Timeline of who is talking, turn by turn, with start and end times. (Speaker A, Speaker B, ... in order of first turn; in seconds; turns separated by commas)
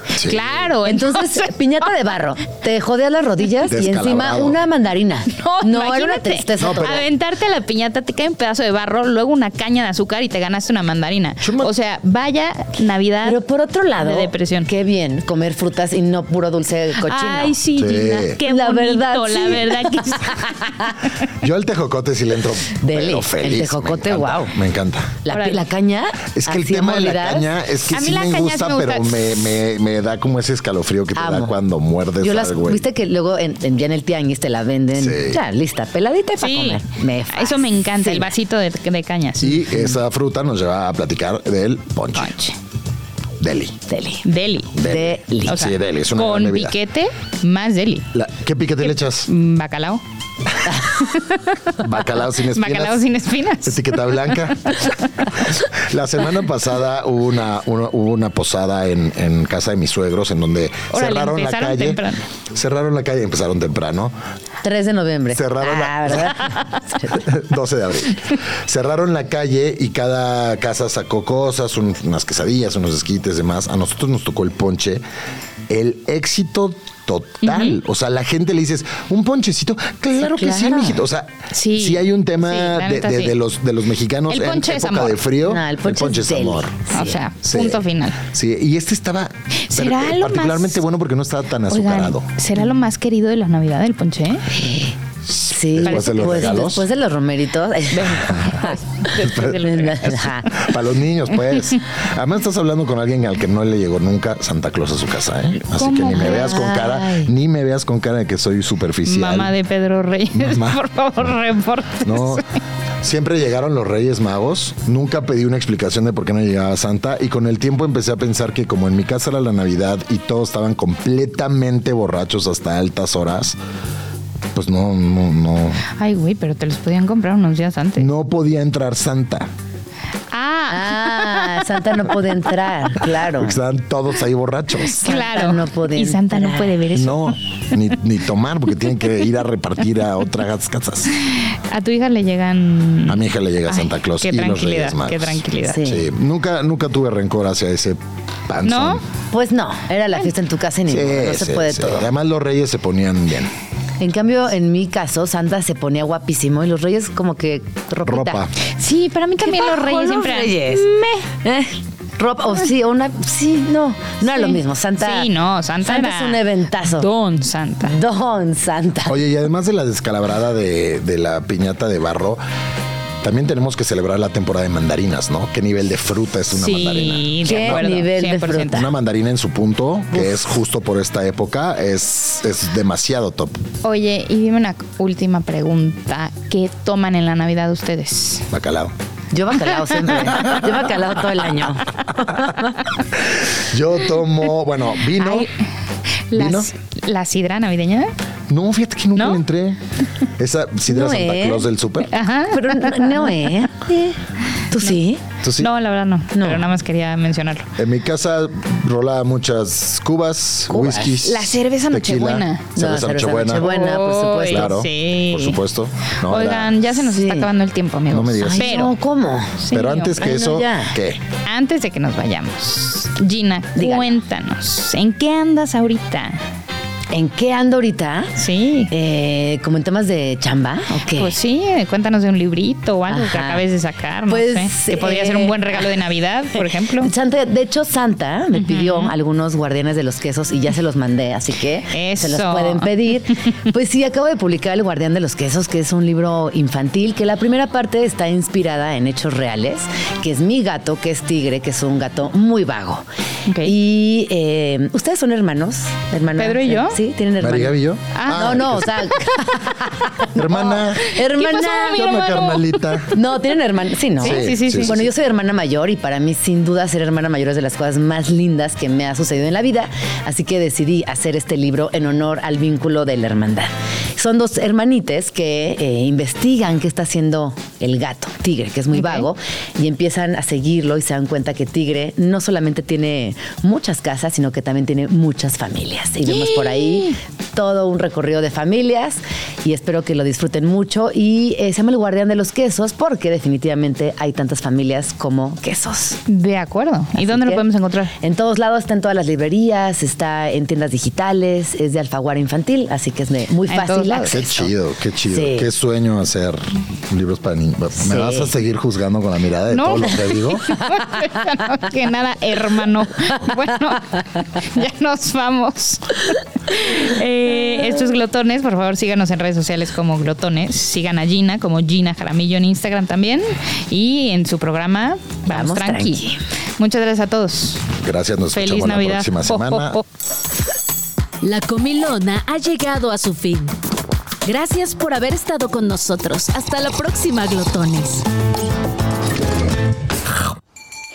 Speaker A: 0.1-0.6, Speaker B: 0.2-1.5, Speaker C: 0.8-7.0, Speaker A: 3.6-4.6, Speaker B: 5.3-13.4, Speaker A: 6.6-7.0, Speaker A: 11.4-11.7, Speaker C: 13.2-17.6, Speaker B: 14.0-14.7, Speaker B: 17.0-20.9, Speaker A: 17.7-18.4, Speaker C: 18.4-21.0, Speaker A: 21.3-25.2, Speaker C: 22.8-24.5, Speaker C: 25.2-27.5, Speaker B: 25.3-25.6, Speaker A: 26.3-32.9, Speaker B: 27.9-29.2, Speaker C: 31.1-31.5, Speaker C: 32.2-38.3, Speaker A: 34.9-35.4, Speaker B: 36.4-39.7, Speaker A: 39.4-42.3, Speaker B: 42.1-42.5, Speaker A: 43.4-43.8, Speaker C: 43.9-44.2, Speaker B: 44.2-44.8, Speaker A: 44.7-46.8, Speaker C: 44.8-45.7, Speaker B: 45.4-48.1, Speaker A: 48.1-49.3, Speaker B: 49.2-50.0, Speaker B: 51.0-51.7, Speaker A: 51.8-53.0, Speaker B: 52.5-54.3, Speaker A: 53.6-64.1, Speaker B: 60.9-62.2, Speaker C: 64.6-67.2, Speaker A: 65.3-75.0, Speaker A: 75.7-86.9, Speaker B: 77.4-77.8, Speaker C: 80.2-81.0, Speaker B: 81.5-83.3, Speaker B: 84.3-85.2, Speaker C: 85.4-87.2, Speaker B: 86.9-88.2, Speaker A: 87.4-92.3, Speaker B: 89.6-90.8, Speaker B: 91.7-94.5, Speaker C: 94.5-94.9, Speaker A: 95.2-96.8, Speaker C: 95.5-98.8, Speaker B: 95.8-96.7, Speaker B: 97.9-100.5, Speaker A: 98.0-98.6, Speaker A: 99.2-99.7, Speaker C: 99.3-100.6, Speaker A: 100.5-109.5, Speaker B: 105.7-106.8, Speaker C: 106.1-107.3, Speaker B: 109.0-112.6, Speaker A: 110.3-111.3, Speaker A: 112.0-112.4, Speaker A: 113.0-123.6, Speaker A: 124.5-125.8, Speaker B: 125.9-128.1, Speaker A: 128.0-129.5, Speaker B: 130.3-131.8, Speaker C: 130.7-133.6, Speaker A: 133.1-135.1, Speaker B: 134.8-137.4, Speaker C: 135.0-136.8, Speaker A: 136.9-141.1, Speaker B: 141.2-145.8, Speaker A: 143.1-149.0, Speaker C: 145.6-146.1, Speaker B: 148.6-149.0, Speaker C: 149.3-152.1, Speaker A: 150.9-153.5, Speaker C: 154.0-158.4, Speaker A: 158.1-158.5, Speaker B: 158.7-161.3, Speaker C: 159.4-165.3, Speaker B: 164.3-167.9, Speaker C: 165.8-167.1, Speaker C: 167.8-169.2, Speaker A: 169.1-172.4, Speaker A: 173.2-177.9, Speaker B: 176.5-178.9, Speaker C: 177.4-178.9, Speaker A: 178.7-183.6, Speaker B: 183.8-188.5, Speaker A: 188.5-188.9, Speaker C: 189.3-192.9, Speaker B: 190.0-190.6, Speaker A: 193.1-195.5, Speaker B: 195.2-195.5, Speaker B: 196.3-198.1, Speaker A: 196.3-196.7, Speaker A: 198.5-199.8, Speaker A: 200.4-202.2, Speaker C: 200.9-201.7, Speaker B: 202.1-203.5, Speaker C: 202.5-204.2, Speaker C: 204.7-205.2, Speaker A: 205.4-205.7, Speaker B: 205.6-207.7, Speaker C: 206.3-206.7, Speaker A: 207.8-213.7, Speaker C: 210.7-211.2, Speaker B: 211.2-212.7, Speaker C: 212.8-214.8, Speaker B: 213.5-215.6, Speaker A: 214.4-216.8, Speaker B: 216.2-218.9, Speaker C: 217.0-217.5, Speaker A: 218.1-218.8, Speaker C: 218.4-219.6, Speaker B: 219.6-220.2, Speaker A: 219.7-221.2, Speaker C: 220.2-221.0, Speaker B: 221.4-226.4, Speaker C: 223.8-224.1, Speaker C: 227.1-228.3, Speaker B: 228.3-228.9, Speaker C: 228.9-231.3, Speaker B: 231.1-237.1, Speaker C: 233.1-233.6, Speaker C: 234.3-235.9, Speaker C: 236.5-253.0, Speaker B: 238.5-239.1, Speaker B: 241.9-242.9, Speaker B: 253.5-253.7, Speaker C: 253.6-262.2, Speaker B: 256.4-257.0, Speaker A: 257.4-259.2, Speaker B: 258.1-258.6, Speaker A: 260.3-261.2, Speaker B: 261.2-262.9, Speaker A: 261.9-263.1, Speaker C: 263.1-296.2, Speaker A: 264.2-265.1, Speaker B: 264.2-265.0, Speaker B: 278.9-279.3, Speaker B: 286.2-287.2, Speaker B: 296.3-298.1, Speaker C: 297.2-297.6, Speaker C: 298.2-304.7, Speaker B: 303.7-304.4, Speaker A: 304.2-310.6, Speaker C: 305.3-305.7, Speaker C: 308.0-308.5, Speaker B: 309.7-326.2, Speaker C: 325.5-326.4, Speaker B: 326.8-327.9, Speaker A: 327.9-330.0, Speaker B: 328.5-330.0, Speaker D: 331.4-333.7, Speaker D: 334.4-338.2